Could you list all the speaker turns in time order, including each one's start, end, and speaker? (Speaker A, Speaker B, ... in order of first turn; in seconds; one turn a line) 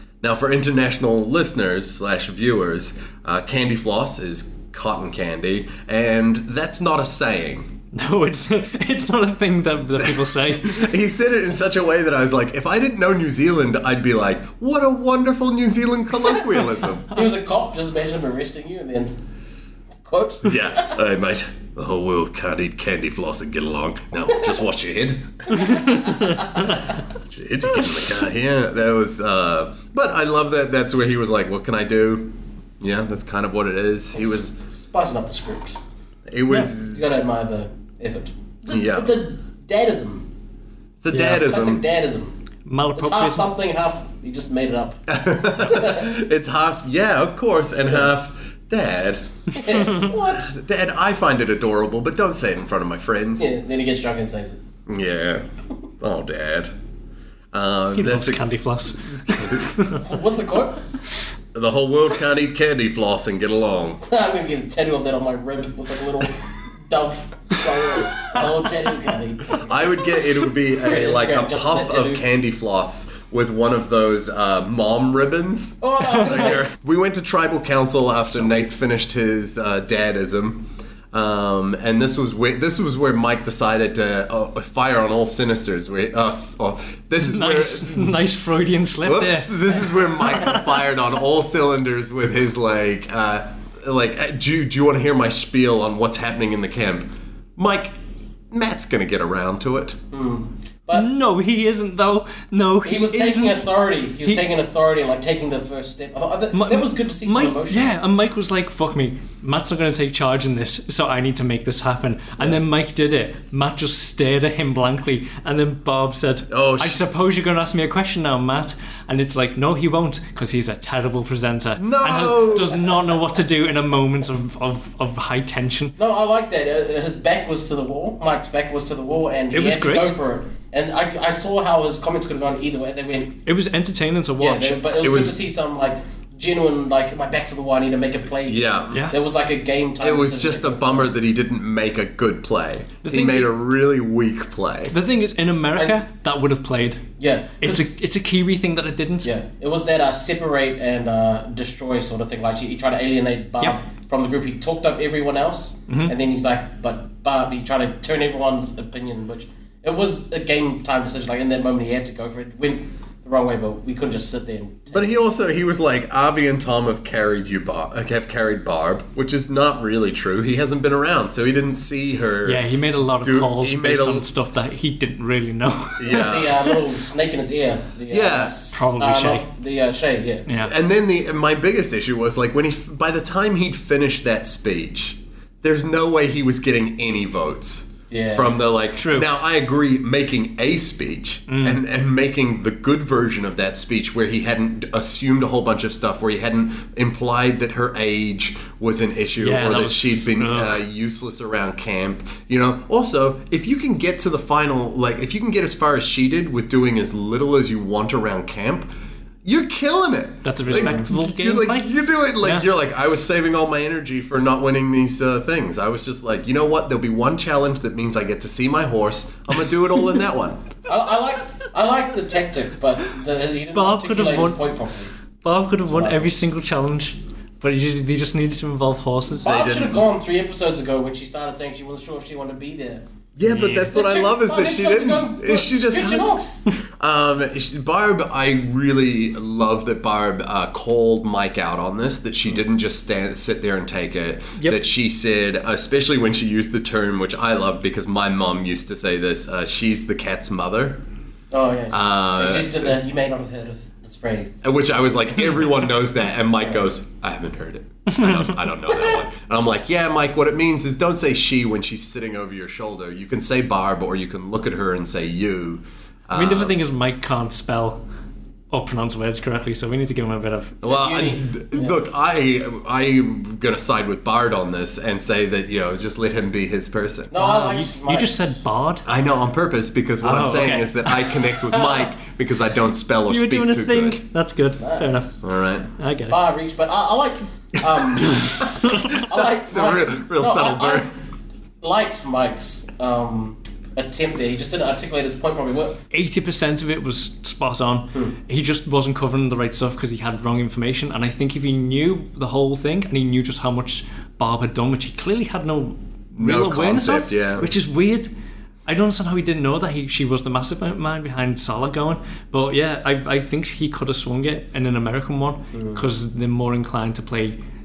Speaker A: 0.2-7.7
Speaker B: 7.9-10.9
Speaker A: 10.0-17.1
Speaker C: 17.1-19.1
Speaker C: 20.0-21.0
Speaker A: 20.4-25.9
Speaker C: 25.6-26.6
Speaker B: 25.6-26.8
Speaker A: 27.2-34.5
Speaker C: 34.1-35.8
Speaker A: 36.3-37.0
Speaker C: 36.9-40.3
Speaker A: 38.7-39.2
Speaker A: 41.0-41.8
Speaker B: 41.1-41.5
Speaker C: 41.2-42.3
Speaker B: 42.6-43.5
Speaker C: 43.0-45.0
Speaker A: 45.1-49.2
Speaker C: 45.5-46.1
Speaker C: 49.5-50.5
Speaker A: 50.3-53.5
Speaker C: 53.4-54.6
Speaker A: 54.9-55.4
Speaker A: 56.0-56.7
Speaker A: 57.5-58.5
Speaker B: 57.9-60.0
Speaker A: 59.3-59.6
Speaker C: 60.0-60.8
Speaker A: 61.5-64.0
Speaker C: 64.0-72.2
Speaker A: 69.7-88.2
Speaker C: 75.8-76.7
Speaker B: 87.2-90.8
Speaker A: 89.0-97.9
Speaker A: 98.5-100.0
Speaker C: 100.1-101.0
Speaker B: 100.9-104.5
Speaker C: 102.8-107.9
Speaker B: 106.5-125.9
Speaker A: 116.5-117.0
Speaker A: 121.8-122.9
Speaker C: 126.0-133.4
Speaker B: 129.5-130.2
Speaker B: 133.4-134.9
Speaker C: 134.4-141.1
Speaker A: 135.0-135.4
Speaker A: 138.5-139.1
Speaker B: 138.9-139.2
Speaker A: 140.0-144.9
Speaker B: 143.0-143.5
Speaker B: 144.9-147.1
Speaker C: 147.2-147.9
Speaker B: 147.6-149.3
Speaker C: 149.2-165.1
Speaker A: 164.9-172.6
Speaker B: 172.4-176.8
Speaker A: 173.2-174.3
Speaker A: 176.0-176.6
Speaker C: 176.1-180.4
Speaker A: 178.1-178.6
Speaker B: 178.7-179.4
Speaker B: 180.5-180.7
Speaker A: 180.6-208.9
Speaker C: 188.1-188.5
Speaker B: 189.0-189.3
Speaker B: 191.5-191.8
Speaker B: 199.4-200.8
Speaker A: 209.4-220.6
Speaker B: 210.4-212.7
Speaker C: 210.7-211.1
Speaker C: 220.8-225.1
Speaker B: 223.7-224.6
Speaker B: 225.4-229.6
Speaker C: 225.8-226.3
Speaker A: 229.3-230.0
Speaker C: 229.3-233.0
Speaker A: 233.3-236.3
Speaker B: 233.4-233.9
Speaker C: 233.9-236.6
Speaker A: 237.0-251.0
Speaker C: 251.5-254.6
Speaker A: 251.9-252.9
Speaker A: 254.6-266.8
Speaker B: 258.1-258.6
Speaker B: 266.3-268.0
Speaker B: 268.7-270.8
Speaker A: 270.8-277.3
Speaker C: 270.8-272.0
Speaker C: 277.3-278.6
Speaker B: 277.3-279.1
Speaker A: 279.1-284.2
Speaker B: 280.2-282.1
Speaker B: 283.3-285.3
Speaker C: 284.8-285.4
Speaker A: 285.4-285.9
Speaker B: 286.0-286.4
Speaker C: 286.2-291.1
Speaker A: 287.9-291.1
Speaker C: 291.8-296.0
Speaker B: 296.1-308.3
Speaker A: 306.4-307.7
Speaker B: 308.9-317.6
Speaker C: 315.7-316.1